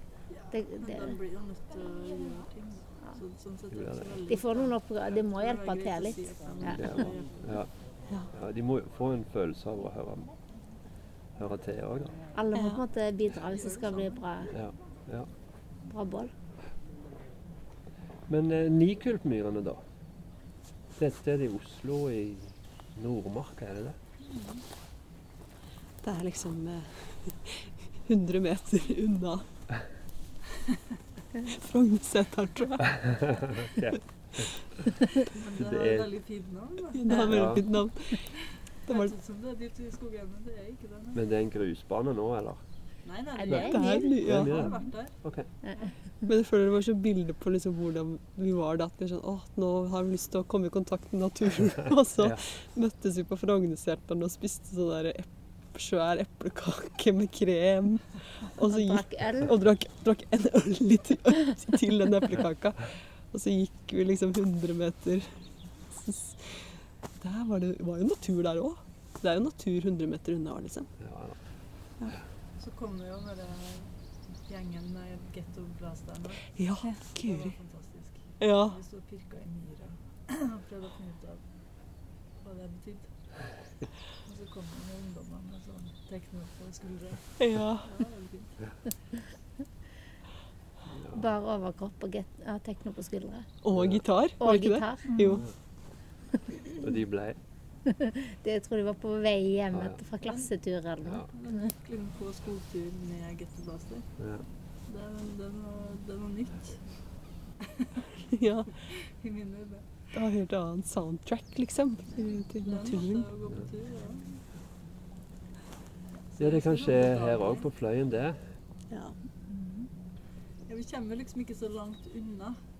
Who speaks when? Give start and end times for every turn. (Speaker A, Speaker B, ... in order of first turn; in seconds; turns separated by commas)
Speaker A: 0.3-7.4, Speaker B: 0.5-1.2, Speaker C: 3.7-4.2, Speaker B: 4.3-6.8, Speaker C: 6.7-7.7, Speaker C: 8.3-10.3, Speaker C: 11.3-12.2, Speaker B: 12.3-14.5, Speaker D: 12.5-12.8, Speaker A: 13.3-14.2, Speaker C: 14.5-15.3, Speaker B: 15.9-16.3, Speaker C: 18.3-19.8, Speaker C: 21.0-24.0, Speaker A: 24.2-24.6, Speaker D: 26.0-29.4, Speaker D: 31.4-33.8, Speaker C: 33.6-34.5, Speaker A: 35.3-37.5, Speaker C: 35.5-36.1, Speaker D: 36.9-39.1, Speaker C: 37.3-37.6, Speaker A: 38.9-41.2, Speaker C: 41.1-42.6, Speaker A: 43.0-45.1, Speaker B: 43.4-44.1, Speaker D: 43.5-44.7, Speaker C: 44.2-45.5, Speaker B: 45.6-45.9, Speaker D: 46.2-70.9, Speaker B: 58.7-59.5, Speaker C: 71.0-71.4, Speaker A: 72.6-73.9, Speaker A: 74.5-76.5, Speaker D: 76.5-77.5, Speaker A: 77.1-81.4, Speaker D: 78.4-78.8, Speaker A: 82.4-83.1, Speaker A: 84.2-88.7, Speaker D: 87.4-87.9, Speaker C: 90.9-91.2, Speaker B: 91.1-93.5, Speaker D: 93.6-95.5, Speaker C: 93.7-94.0, Speaker B: 94.4-95.1, Speaker A: 95.1-95.4, Speaker C: 96.8-97.4, Speaker B: 97.8-101.7, Speaker C: 99.7-100.0, Speaker A: 100.2-100.5, Speaker C: 101.0-101.3, Speaker A: 101.3-104.1, Speaker C: 104.2-104.4, Speaker A: 104.9-106.9, Speaker D: 108.2-108.7, Speaker A: 108.8-109.9, Speaker D: 110.1-113.3, Speaker A: 112.6-114.4, Speaker A: 116.3-117.7, Speaker C: 116.4-118.4, Speaker D: 118.9-119.2, Speaker A: 120.7-122.6